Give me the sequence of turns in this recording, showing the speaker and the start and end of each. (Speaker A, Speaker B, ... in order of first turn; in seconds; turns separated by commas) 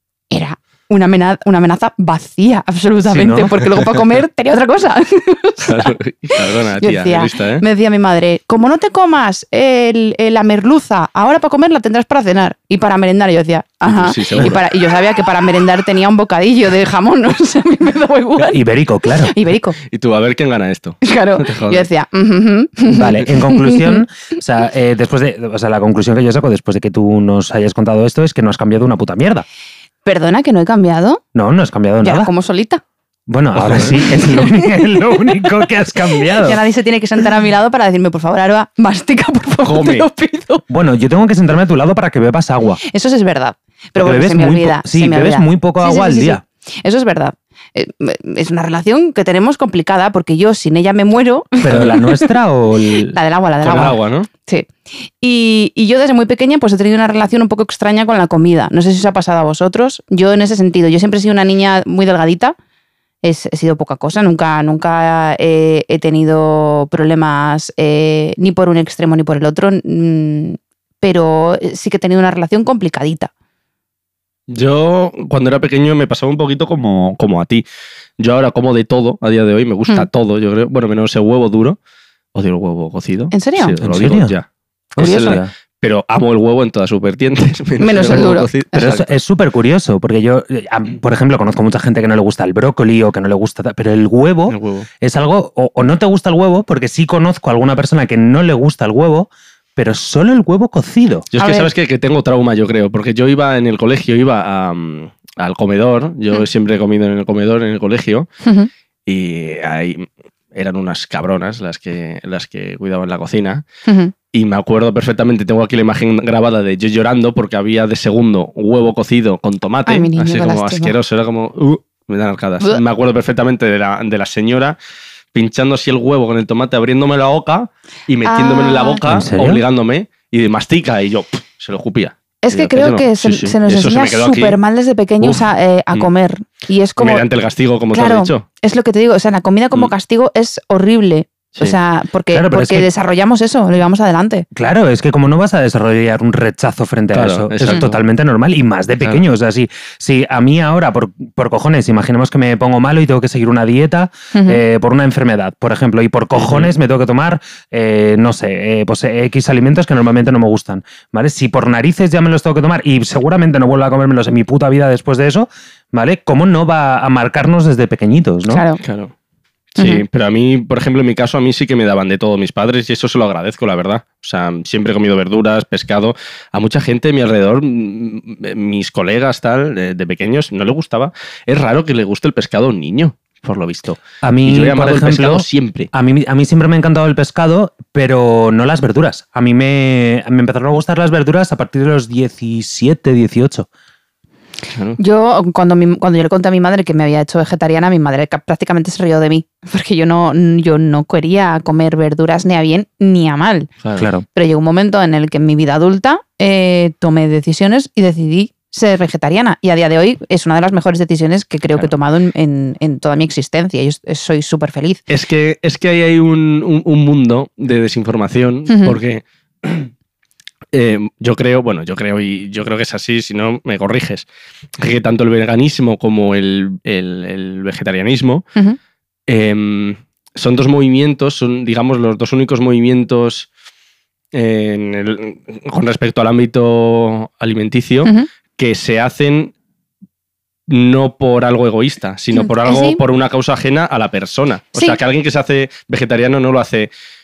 Speaker A: 0.3-19.8, Speaker B: 3.1-3.6, Speaker C: 5.6-7.6, Speaker C: 13.9-14.6, Speaker B: 18.5-19.3, Speaker C: 19.9-21.9, Speaker A: 21.0-24.0, Speaker B: 22.9-29.4, Speaker A: 30.0-31.2, Speaker B: 31.3-32.3, Speaker A: 32.0-32.8, Speaker B: 33.3-36.6, Speaker C: 33.6-34.0, Speaker A: 34.1-35.4, Speaker A: 36.3-40.6, Speaker C: 39.6-40.1, Speaker B: 40.7-42.8, Speaker A: 42.8-52.3, Speaker B: 44.0-46.4, Speaker B: 51.6-53.2, Speaker A: 53.1-62.5, Speaker C: 53.6-54.3, Speaker A: 63.2-73.3, Speaker C: 74.5-77.6, Speaker C: 78.2-81.8, Speaker C: 82.3-89.1, Speaker A: 83.3-83.8, Speaker B: 83.8-84.3, Speaker B: 85.0-85.5, Speaker A: 85.0-85.4, Speaker A: 87.8-88.9, Speaker B: 88.0-101.3, Speaker C: 94.5-94.9, Speaker C: 101.3-108.3, Speaker A: 101.4-101.7, Speaker A: 108.4-108.7, Speaker C: 109.1-113.6, Speaker A: 113.8-114.1, Speaker C: 114.3-124.8, Speaker A: 119.8-120.9, Speaker C: 125.3-134.6, Speaker A: 128.2-129.0, Speaker B: 129.0-129.6, Speaker A: 132.4-137.2, Speaker C: 135.2-136.1, Speaker C: 137.0-138.4, Speaker A: 137.9-144.4, Speaker B: 142.3-142.9, Speaker B: 144.5-168.6, Speaker C: 147.1-147.9, Speaker A: 154.3-154.6, Speaker C: 156.3-156.7, Speaker A: 168.5-168.8, Speaker C: 168.8-169.1, Speaker C: 169.8-185.9, Speaker A: 169.8-170.0, Speaker B: 184.2-193.7, Speaker C: 194.7-195.0, Speaker A: 195.0-203.7, Speaker C: 203.8-204.1, Speaker B: 204.0-204.2, Speaker A: 204.3-215.0, Speaker C: 215.1-219.9, Speaker A: 218.7-218.9, Speaker C: 220.7-224.2, Speaker C: 224.8-228.4, Speaker C: 229.3-233.5, Speaker C: 234.3-239.5, Speaker C: 240.7-246.9, Speaker A: 242.3-243.0, Speaker A: 244.7-245.0